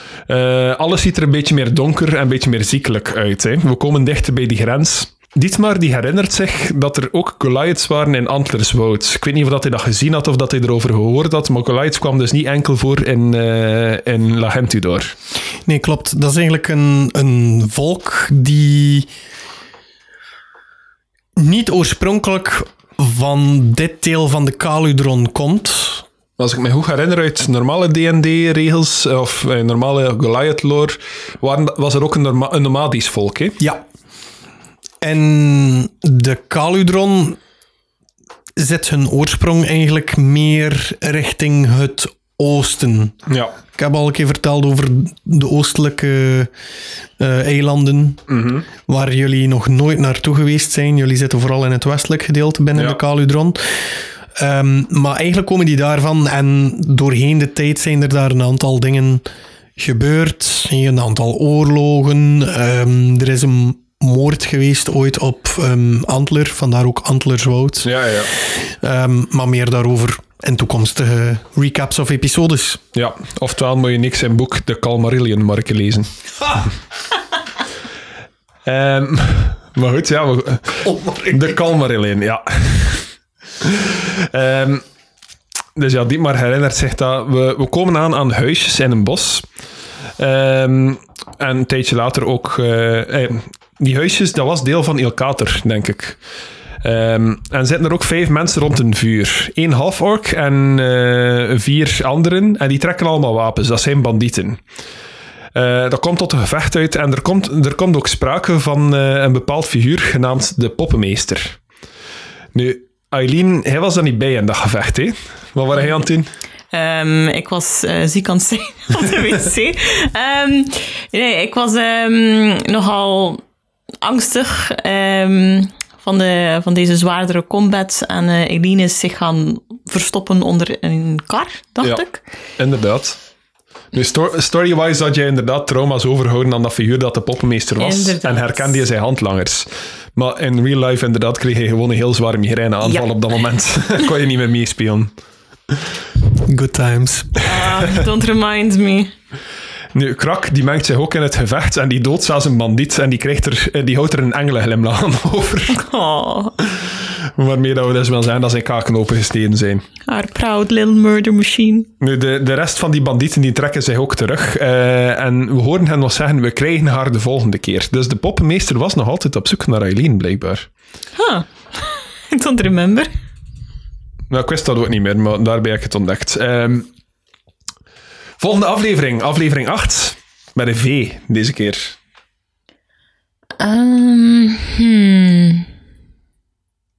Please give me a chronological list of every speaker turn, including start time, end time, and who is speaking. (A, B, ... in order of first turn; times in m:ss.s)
0:00.3-0:15.1 A
0:15.7-0:19.1 B
0:21.4-0:26.1 B
0:26.4-0:33.6 A
0:35.0-0:37.4 B
0:38.6-0:43.2 B
0:43.3-0:43.5 A
0:43.8-0:46.5 B
0:47.2-0:48.2 B
0:48.3-0:48.7 A
0:48.9-0:59.2 B
0:59.8-1:12.8 B
1:07.8-1:08.3 A
1:12.9-1:16.7 A
1:18.6-1:23.1 A
1:20.8-1:21.5 B
1:23.6-1:24.8 A
1:25.8-1:29.5 A
1:30.2-1:36.2 A
1:36.8-1:44.6 A
1:45.6-1:51.6 A
1:52.5-1:56.3 A
1:56.7-2:03.4 C
2:04.0-2:12.2 C
2:12.6-2:13.2 A
2:13.9-2:25.1 A
2:17.8-2:18.8 C
2:26.5-2:27.5 B
2:27.4-2:29.1 C
2:29.9-2:35.8 A
2:35.7-2:36.6 C
2:36.7-2:39.8 A
2:40.1-2:41.9 C
2:42.0-2:50.7 A
2:51.2-2:53.1 C
2:54.3-2:56.9 A
2:58.4-3:02.0 A
3:03.6-3:05.7 C